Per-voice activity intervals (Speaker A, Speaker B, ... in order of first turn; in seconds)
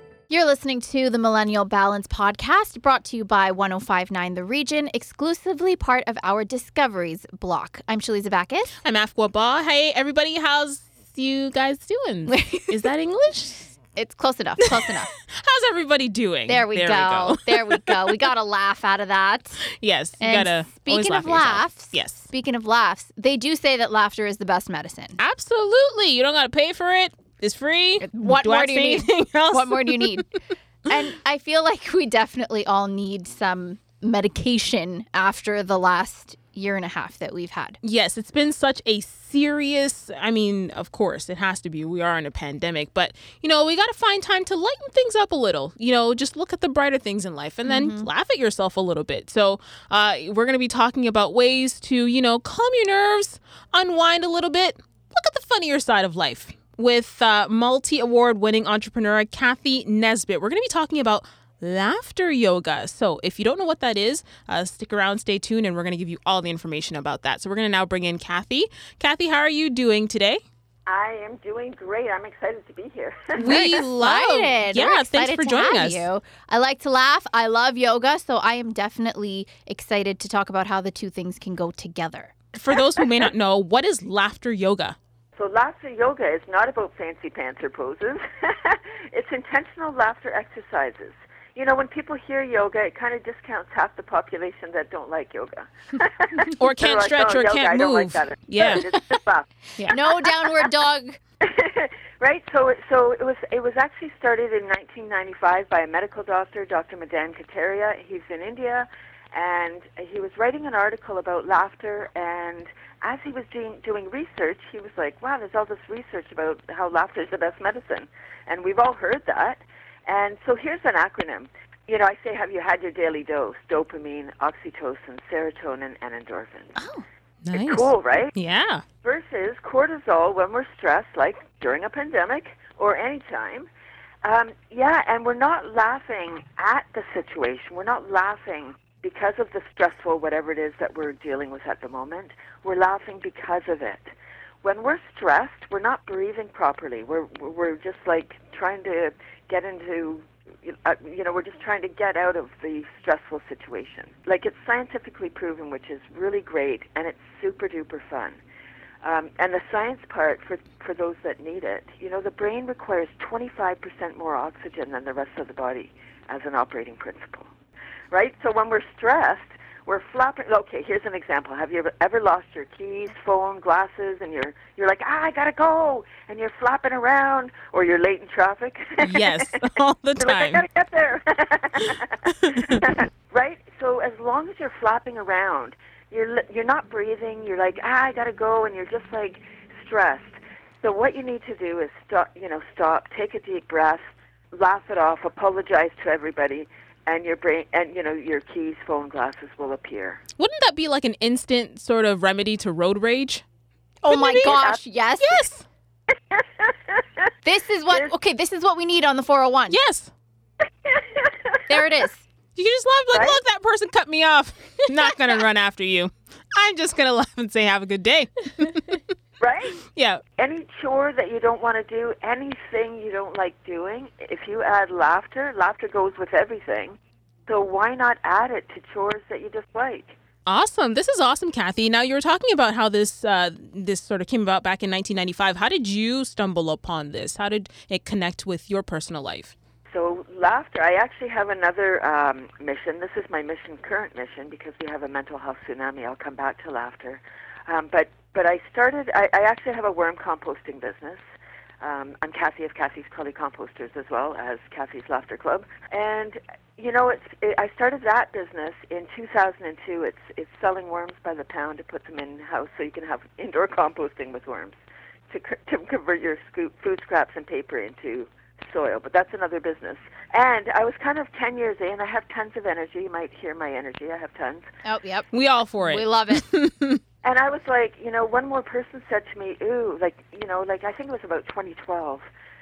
Speaker A: 0.3-8.7, 12.3-12.8, 13.9-15.1, 16.5-19.6, 20.2-25.2, 28.0-30.3, 30.9-37.8, 47.7-48.1, 73.4-82.4, 98.7-99.0, 99.9-101.2, 126.8-127.0, 204.0-205.4, 207.4-209.8, 211.7-212.2, 274.9-276.4
Speaker B: 8.8-13.7, 14.6-18.3, 19.6-22.3, 25.2-30.2, 37.8-70.4, 73.4-76.1, 82.5-85.0, 96.5-98.8, 127.5-128.8, 179.0-180.7, 182.4-182.9, 200.4-203.4, 204.0-205.7, 209.7-210.1, 212.6-219.0, 219.8-220.2, 230.5-239.6, 275.3-277.0
Speaker C: 70.9-73.8, 85.4-99.9, 101.4-126.8, 127.5-128.3, 129.0-133.7, 134.2-144.1, 144.6-158.4, 159.0-167.5, 168.1-179.5, 180.2-200.2, 206.3-207.0, 210.9-211.6, 213.1-213.4, 219.4-219.8, 220.4-230.2, 239.9-251.2, 251.8-264.8, 265.3-274.7, 277.2-282.2